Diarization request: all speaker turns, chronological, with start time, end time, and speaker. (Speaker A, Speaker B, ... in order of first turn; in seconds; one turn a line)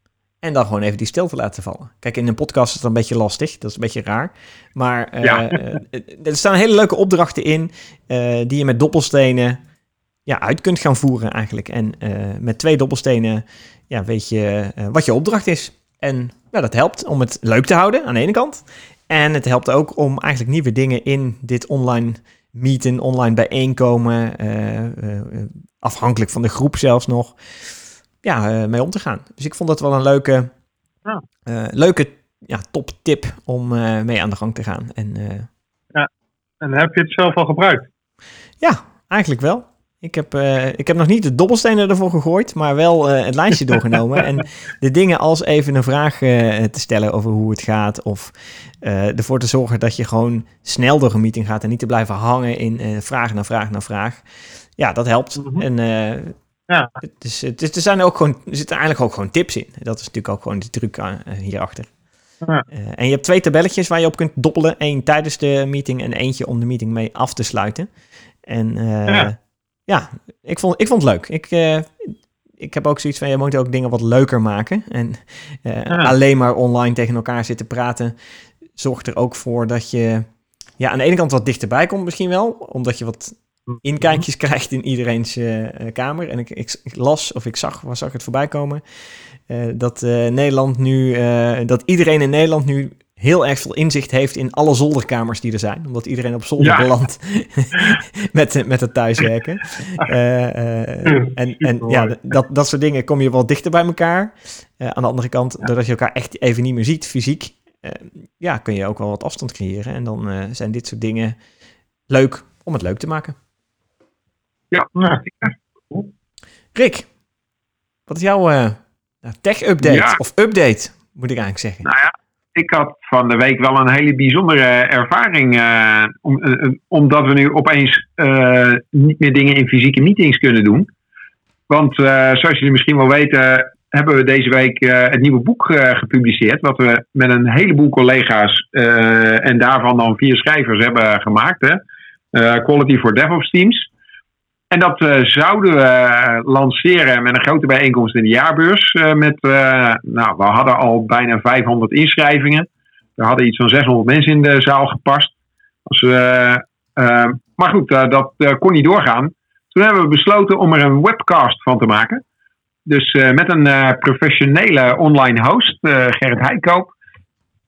Speaker A: 0.4-9.6
Speaker B: 5.2-5.5
Speaker A: 10.2-30.5
Speaker A: 31.4-35.5
Speaker C: 36.6-37.9
Speaker A: 38.6-54.2
Speaker A: 54.8-56.3
Speaker A: 57.0-61.9
Speaker A: 62.7-67.9
Speaker A: 68.4-78.1
Speaker A: 78.8-80.3
Speaker A: 80.8-88.8
Speaker A: 89.5-111.4
Speaker B: 96.6-96.9
Speaker C: 101.7-102.1
Speaker A: 112.1-113.4
Speaker B: 114.7-115.5
Speaker C: 115.0-115.2
Speaker A: 116.7-117.1
Speaker A: 118.1-121.8
Speaker B: 119.8-120.2
Speaker B: 121.8-130.9
Speaker B: 131.7-141.8
Speaker B: 142.3-143.9
Speaker B: 144.7-155.3
Speaker B: 155.9-162.2
Speaker B: 162.8-166.9